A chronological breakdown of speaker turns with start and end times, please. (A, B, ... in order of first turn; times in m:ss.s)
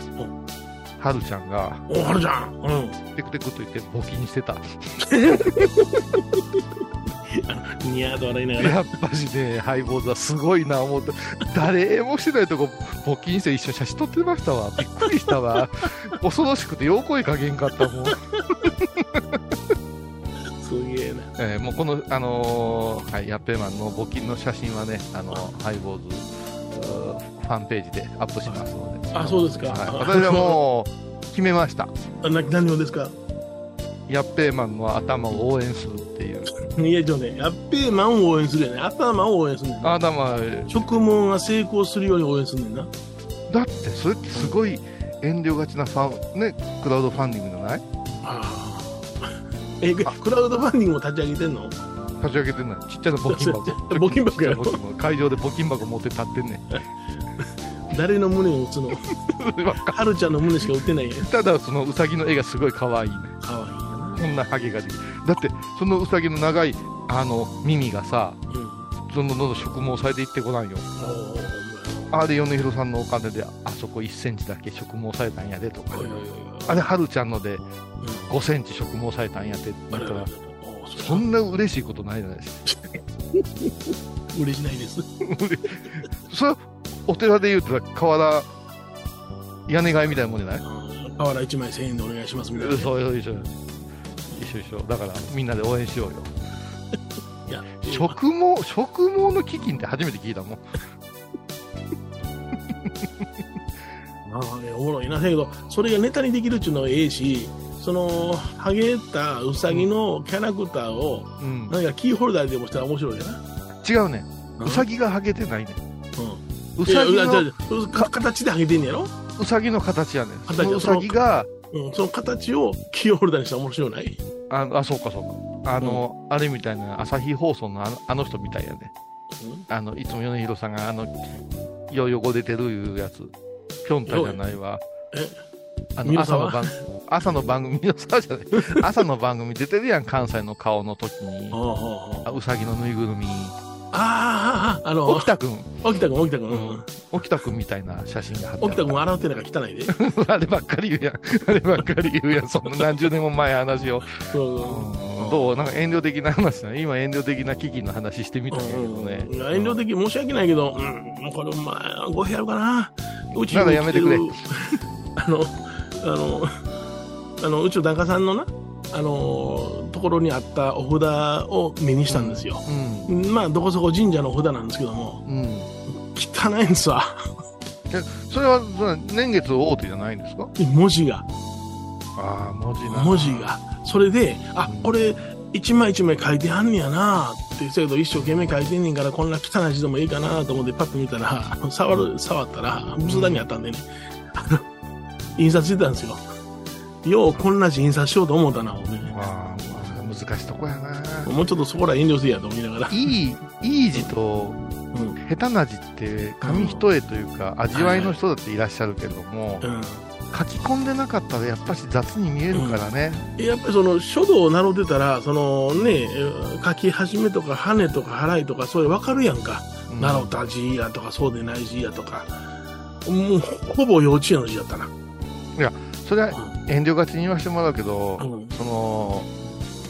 0:01.0-0:01.8 A
0:01.9-0:03.0 B
0:03.2-0:04.7 A
0:05.0-0:06.4 B
0:07.3-0:08.8 B
0:08.6-0:19.4 A
0:20.6-0:21.3 B
0:21.4-0:31.9 A
0:28.5-0:30.6 B
0:32.2-0:33.2 B
0:34.1-0:36.5 A
0:36.6-0:40.0 B
0:39.8-0:40.8 A
0:40.7-0:42.9 B
0:43.5-0:47.8 A
0:48.2-0:51.8 B
0:52.2-0:56.8 A
0:53.3-0:54.8 B
0:57.4-0:59.2 B
0:59.4-1:00.0 A
0:59.8-1:01.3 B
1:01.2-1:03.4 A
1:03.4-1:04.2 B
1:04.2-1:08.4 A
1:08.5-1:08.9 B
1:09.1-1:10.9 A
1:11.0-1:12.1 B
1:12.1-1:17.6 A
1:15.9-1:16.8 B
1:18.0-1:18.3 B
1:18.3-1:20.3 A
1:19.9-1:21.3 B
1:21.0-1:22.6 A
1:22.7-1:23.7 B
1:24.3-1:25.1 B
1:25.2-1:28.5 A
1:29.7-1:30.6 A
1:30.6-1:32.9 B
1:32.6-1:33.6 A
1:34.3-1:36.3 A
1:37.5-1:38.2 B
1:37.8-1:40.6 A
1:42.7-1:43.3 A
1:44.3-1:53.4 B
1:51.4-1:51.8 A
1:53.8-1:55.8 A
1:54.6-1:54.8 B
1:56.2-1:59.1 B
1:56.8-1:58.1 A
1:59.4-2:01.5 A
2:00.5-2:01.2 B
2:01.7-2:04.2 B
2:04.5-2:08.9 A
2:05.8-2:06.0 B
2:09.4-2:09.7 B
2:09.7-2:11.4 A
2:11.9-2:13.3 A
2:13.8-2:14.8 A
2:14.1-2:14.4 B
2:15.1-2:15.4 B
2:16.0-2:21.6 A
2:16.0-2:16.7 B
2:18.5-2:18.8 B
2:21.5-2:22.3 B
2:22.2-2:23.6 A
2:23.9-2:25.3 B
2:25.1-2:25.8 A
2:25.8-2:26.9 B
2:26.5-2:29.0 A
2:28.6-2:30.0 B
2:29.9-2:39.8 A
2:34.2-2:35.5 B
2:38.5-2:46.6 B
2:43.4-2:44.4 A
2:47.4-2:55.2 B
2:52.1-2:53.1 A
2:55.2-2:55.7 A
2:55.9-2:57.2 B
2:57.9-3:00.5 A
3:00.6-3:01.3 B
3:02.2-3:03.5 A
3:02.9-3:14.6 B
3:04.6-3:05.0 A
3:13.0-3:13.5 A
3:15.4-3:16.2 B
3:17.0-3:19.1 B
3:19.1-3:21.3 A
3:21.2-3:23.2 B
3:22.9-3:24.6 A
3:24.9-3:25.2 B
3:25.2-3:29.6 A
3:26.4-3:26.9 B
3:27.7-3:28.2 B
3:29.6-3:30.1 B
3:30.3-3:33.3 A
3:32.5-3:32.8 B
3:33.4-3:42.3 B
3:39.9-3:40.4 A
3:43.0-3:44.9 B
3:45.6-3:49.3 A
3:46.3-3:46.6 B
3:48.2-3:48.6 B